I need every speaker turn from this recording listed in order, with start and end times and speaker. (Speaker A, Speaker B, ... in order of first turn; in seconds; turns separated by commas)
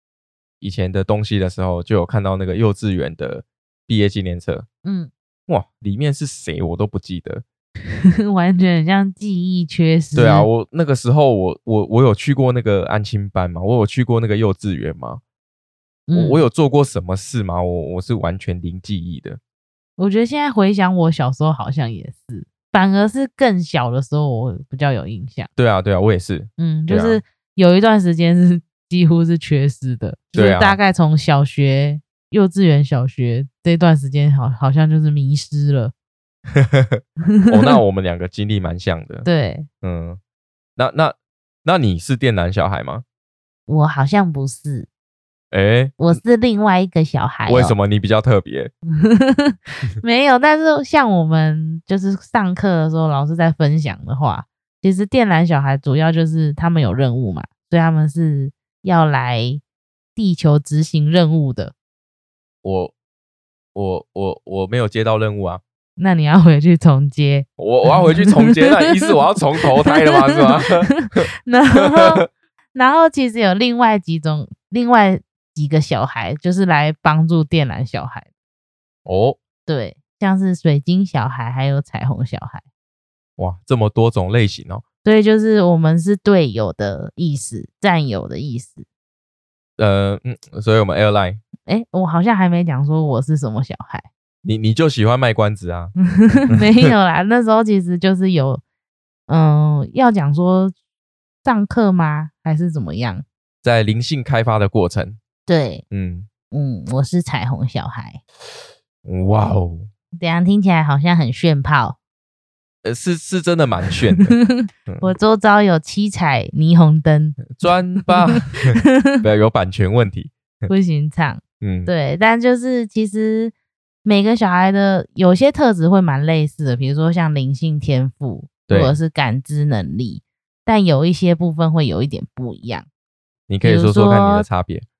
Speaker A: 0.6-4.7, Speaker B: 4.8-5.1, Speaker A: 5.5-7.4, Speaker B: 8.2-10.5, Speaker A: 10.1-15.2, Speaker B: 16.1-16.4, Speaker A: 16.1-19.4, Speaker B: 20.0-25.5, Speaker A: 25.6-27.2, Speaker B: 26.6-35.9, Speaker A: 30.3-30.8, Speaker A: 36.5-39.3, Speaker B: 37.4-37.8, Speaker B: 39.2-39.7, Speaker A: 39.8-40.2, Speaker A: 40.8-43.0, Speaker B: 43.7-44.9, Speaker A: 45.5-46.2, Speaker B: 46.0-47.7, Speaker A: 47.5-48.7, Speaker B: 49.0-59.6, Speaker B: 60.1-61.7, Speaker A: 62.6-62.9, Speaker A: 63.7-65.6, Speaker B: 66.0-78.3, Speaker A: 67.6-71.2, Speaker A: 71.8-72.2, Speaker A: 79.0-79.4, Speaker B: 79.7-82.6, Speaker A: 83.4-84.8, Speaker B: 85.0-88.8, Speaker A: 89.8-91.4, Speaker B: 91.7-94.1, Speaker A: 94.4-95.9, Speaker B: 96.2-98.6, Speaker A: 96.5-96.9, Speaker B: 99.3-100.7, Speaker B: 101.4-103.2, Speaker A: 103.6-105.2, Speaker B: 105.5-105.8, Speaker A: 105.9-106.3, Speaker B: 106.5-108.2, Speaker A: 109.0-109.9, Speaker B: 110.1-112.0, Speaker A: 112.8-115.1, Speaker B: 114.1-119.2, Speaker A: 117.5-120.7, Speaker B: 120.7-132.9, Speaker A: 121.6-121.9, Speaker A: 128.7-128.9, Speaker A: 133.5-134.8, Speaker B: 133.6-134.4